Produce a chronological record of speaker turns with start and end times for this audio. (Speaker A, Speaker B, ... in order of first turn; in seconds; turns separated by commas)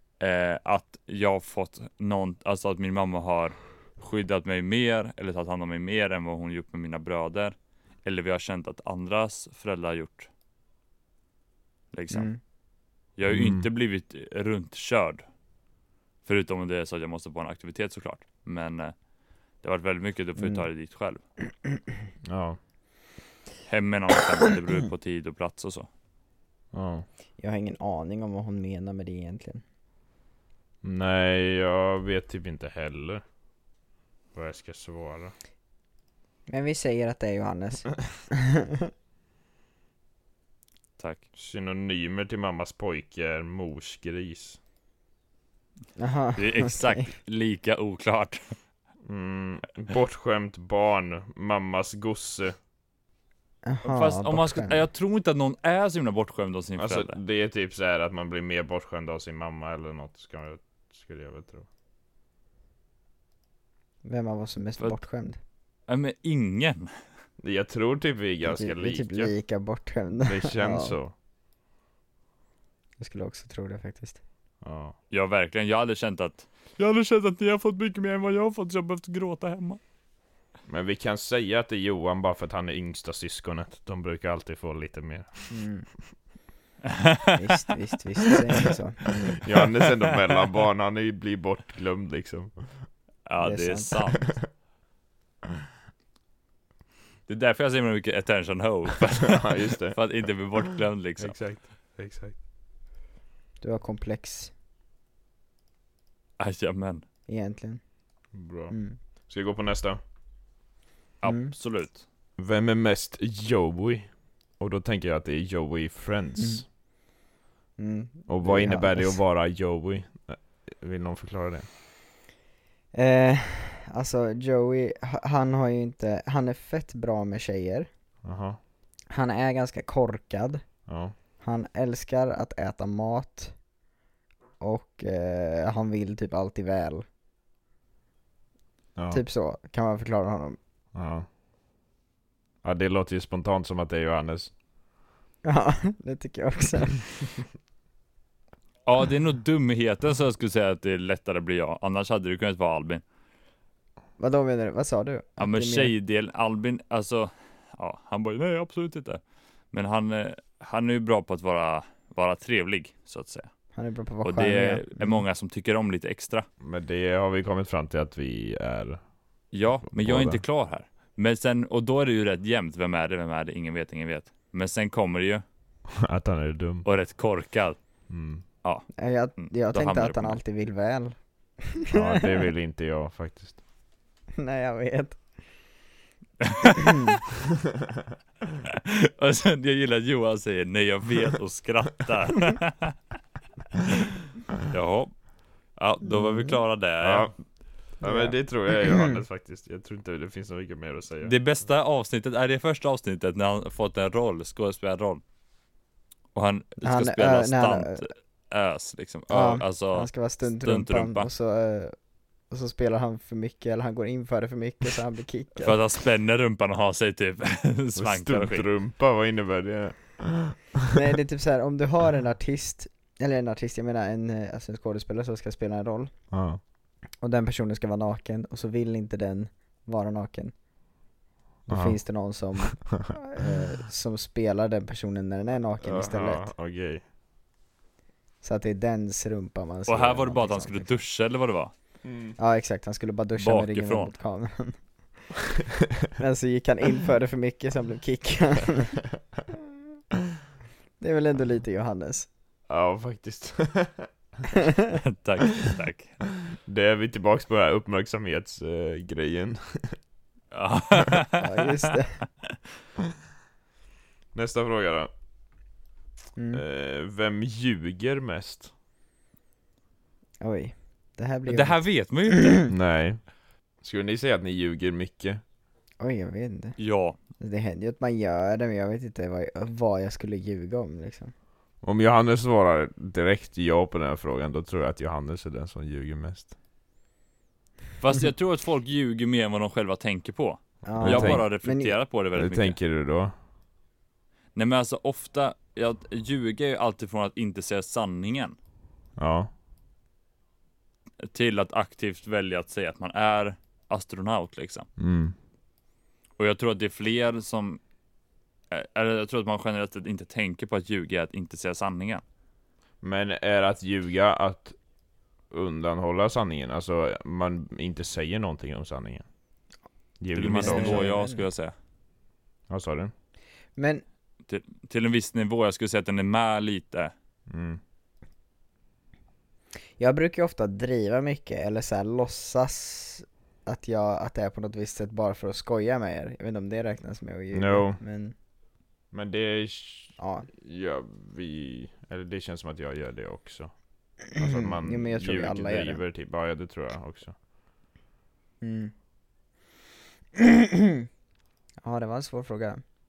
Speaker A: 0.2-10.3, Speaker A: 11.9-12.3, Speaker B: 12.1-12.4, Speaker A: 13.2-15.2, Speaker C: 13.3-13.7, Speaker A: 16.2-18.9, Speaker A: 19.6-21.2, Speaker C: 22.2-22.6, Speaker A: 23.7-25.9, Speaker C: 26.7-27.1, Speaker B: 27.4-29.6, Speaker C: 30.8-33.2, Speaker C: 34.3-35.3, Speaker B: 36.5-38.9, Speaker A: 41.0-41.2, Speaker C: 41.4-44.6, Speaker B: 46.0-47.1, Speaker A: 46.4-48.5, Speaker C: 49.0-52.5, Speaker B: 53.6-54.8, Speaker A: 53.8-57.2, Speaker C: 56.8-61.7, Speaker B: 64.0-65.4, Speaker A: 65.9-66.9, Speaker C: 67.4-69.3, Speaker B: 68.5-71.0, Speaker C: 70.2-71.1, Speaker B: 73.0-74.2, Speaker C: 74.6-74.9, Speaker A: 75.1-79.8, Speaker C: 80.7-85.6, Speaker B: 85.5-85.9, Speaker A: 87.0-87.3, Speaker B: 87.3-89.4, Speaker C: 89.4-92.9, Speaker A: 93.3-94.3, Speaker B: 93.4-94.2, Speaker A: 97.3-101.4, Speaker C: 99.3-100.0, Speaker C: 101.2-102.4, Speaker B: 103.6-104.5, Speaker A: 106.4-107.0, Speaker B: 107.3-107.8, Speaker C: 108.3-108.8, Speaker B: 108.7-109.0, Speaker C: 109.3-110.0, Speaker A: 111.2-112.0, Speaker B: 111.2-111.5, Speaker C: 112.4-116.6, Speaker B: 116.4-116.6, Speaker B: 117.8-119.2, Speaker C: 118.3-121.7, Speaker B: 122.9-127.9, Speaker C: 128.2-128.6, Speaker B: 129.1-130.6, Speaker C: 130.9-131.1, Speaker B: 131.4-133.6, Speaker B: 134.6-137.0, Speaker B: 139.1-140.6, Speaker C: 140.9-141.2, Speaker C: 142.6-144.5, Speaker B: 145.4-147.4, Speaker A: 148.8-153.0, Speaker B: 154.2-155.9, Speaker A: 155.4-159.2, Speaker A: 159.7-163.5, Speaker B: 163.7-165.2, Speaker A: 164.2-166.5, Speaker C: 166.6-169.0, Speaker A: 169.5-175.4, Speaker C: 169.9-170.4, Speaker C: 176.0-176.8, Speaker A: 176.8-177.8, Speaker C: 178.1-178.4, Speaker A: 178.6-180.4, Speaker B: 178.9-182.3, Speaker C: 181.9-183.6, Speaker B: 184.4-185.2, Speaker B: 186.7-187.2, Speaker A: 188.7-192.9, Speaker A: 194.7-195.2, Speaker A: 195.8-197.3, Speaker B: 196.1-196.6, Speaker C: 197.0-197.3, Speaker C: 198.0-201.3, Speaker B: 198.0-199.2, Speaker A: 201.2-205.2, Speaker A: 206.3-211.3, Speaker B: 206.8-208.0, Speaker B: 209.3-211.9, Speaker B: 212.5-215.8, Speaker A: 215.6-218.7, Speaker C: 217.9-220.9, Speaker B: 220.9-226.1, Speaker C: 226.3-226.6, Speaker B: 227.2-230.5, Speaker B: 231.7-236.5, Speaker C: 231.7-232.0, Speaker C: 235.8-237.0, Speaker B: 238.4-240.9, Speaker A: 239.9-241.7, Speaker C: 242.0-242.3, Speaker B: 242.4-244.8, Speaker A: 243.4-244.1, Speaker B: 246.1-249.1, Speaker B: 251.0-252.3, Speaker C: 252.7-254.1, Speaker B: 254.5-254.8, Speaker A: 255.0-256.2, Speaker C: 256.5-260.0, Speaker A: 260.5-261.7, Speaker B: 261.4-262.2, Speaker C: 264.3-265.1, Speaker B: 266.4-266.6, Speaker C: 266.5-268.7, Speaker B: 270.4-272.7, Speaker A: 271.5-272.6, Speaker C: 272.7-273.2, Speaker C: 273.8-275.4, Speaker B: 276.0-276.8, Speaker A: 276.8-277.2, Speaker B: 277.4-281.3, Speaker C: 281.8-286.5, Speaker A: 288.0-292.8, Speaker B: 290.9-291.9, Speaker C: 291.0-291.4, Speaker C: 292.3-293.3, Speaker A: 294.5-298.6, Speaker C: 299.2-299.5, Speaker A: 301.2-304.9, Speaker C: 305.0-305.3, Speaker A: 306.4-307.8, Speaker A: 308.7-312.2, Speaker C: 313.0-314.8, Speaker C: 315.5-319.2, Speaker C: 320.2-321.1, Speaker A: 320.3-321.7, Speaker B: 320.5-321.4, Speaker C: 322.7-323.1, Speaker B: 323.8-324.0, Speaker A: 324.5-327.1, Speaker C: 327.5-327.8, Speaker B: 330.0-338.3, Speaker C: 337.5-338.0, Speaker C: 339.1-343.7, Speaker B: 340.2-340.5, Speaker C: 344.3-347.4, Speaker B: 344.3-346.0, Speaker B: 348.6-348.9, Speaker B: 350.4-351.1, Speaker B: 351.8-352.8